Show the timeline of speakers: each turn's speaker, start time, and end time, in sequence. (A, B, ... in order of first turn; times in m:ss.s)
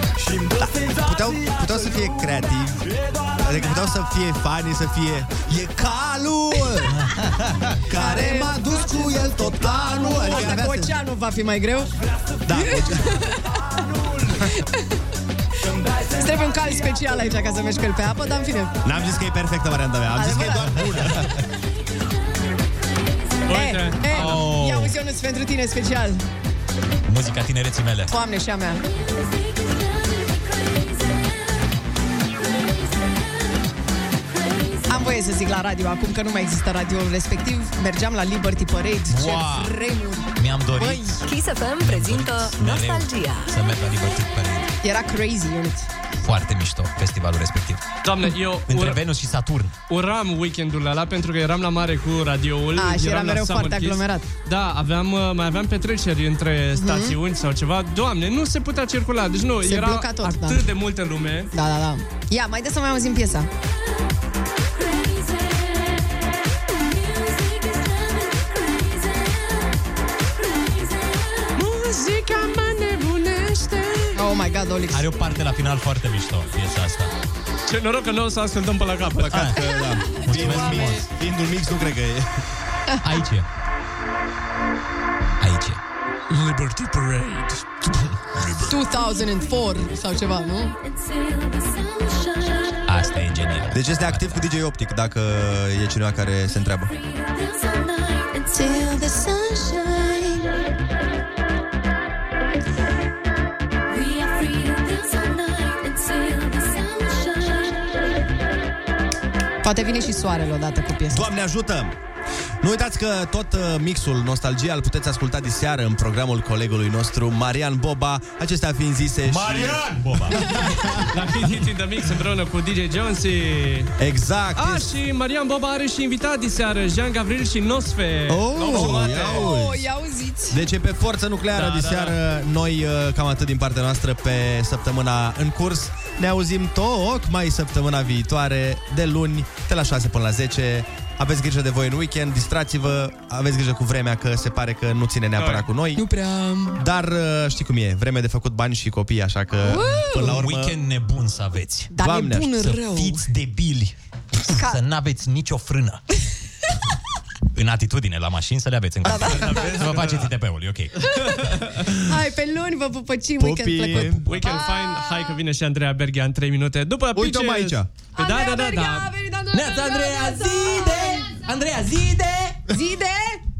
0:00.6-0:07.0 A
0:06.9-0:07.6 B
0:07.8-0:10.9 A
0:07.9-0:08.8 C
0:10.0-0:11.9 C
0:12.4-0:13.3 A
0:12.5-0:13.4 C
0:14.4-0:14.8 C
0:16.1-0:18.7 C
0:18.8-0:21.3 A
0:20.1-0:20.9 C
0:23.5-0:24.5 D
0:23.5-0:26.2 C
0:24.1-0:24.9 B
0:27.1-0:28.1 B
0:28.1-0:28.8 C
0:28.9-0:31.5 E
0:34.3-0:34.9 E
0:34.9-0:41.2 C
0:39.1-0:39.8 B
0:40.4-0:41.2 B
0:41.2-0:43.6 F
0:41.8-0:44.7 B
0:44.8-0:45.9 C
0:46.2-0:47.8 B
0:48.0-0:49.0 D
0:48.7-0:49.7 B
0:49.9-1:01.5 D
0:52.7-0:54.2 C
0:56.7-0:57.2 C
0:59.6-1:00.6 C
1:01.5-1:03.5 C
1:04.7-1:09.7 E
1:10.4-1:11.5 E
1:11.6-1:14.1 D
1:14.1-1:15.1 C
1:14.9-1:17.1 B
1:17.7-1:19.5 D
1:19.2-1:22.3 A
1:19.3-1:19.6 B
1:19.6-1:21.0 C
1:20.1-1:21.0 B
1:23.0-1:23.5 B
1:25.4-1:25.8 B
1:26.3-1:27.4 D
1:28.6-1:30.7 C
1:30.8-1:33.2 E
1:32.9-1:34.4 B
1:33.7-1:36.9 A
1:36.4-1:39.1 E
1:38.5-1:40.5 C
1:43.9-1:48.0 E
1:49.6-1:51.2 C
1:51.1-1:51.9 A
1:52.6-2:01.2 A
1:59.2-2:00.5 B
2:01.1-2:03.9 D
2:04.0-2:04.9 A
2:04.5-2:09.5 D
2:08.3-2:09.8 A
2:08.7-2:10.6 C
2:10.5-2:26.0 A
2:11.5-2:12.2 D
2:25.4-2:25.7 D
2:26.0-2:26.8 C
2:26.8-2:30.8 A
2:29.6-2:30.4 C
2:30.2-2:31.9 B
2:31.9-2:33.2 C
2:32.0-2:32.7 A
2:32.6-2:33.9 B
2:34.4-2:36.0 B
2:34.5-2:34.8 C
2:37.5-2:41.2 B
2:39.0-2:39.8 C
2:39.4-2:40.2 A
2:41.9-2:45.3 C
2:43.4-2:44.3 A
2:44.2-2:49.1 D
2:47.1-2:47.9 A
2:48.2-2:51.2 C
2:49.5-2:52.6 B
2:52.7-2:53.4 C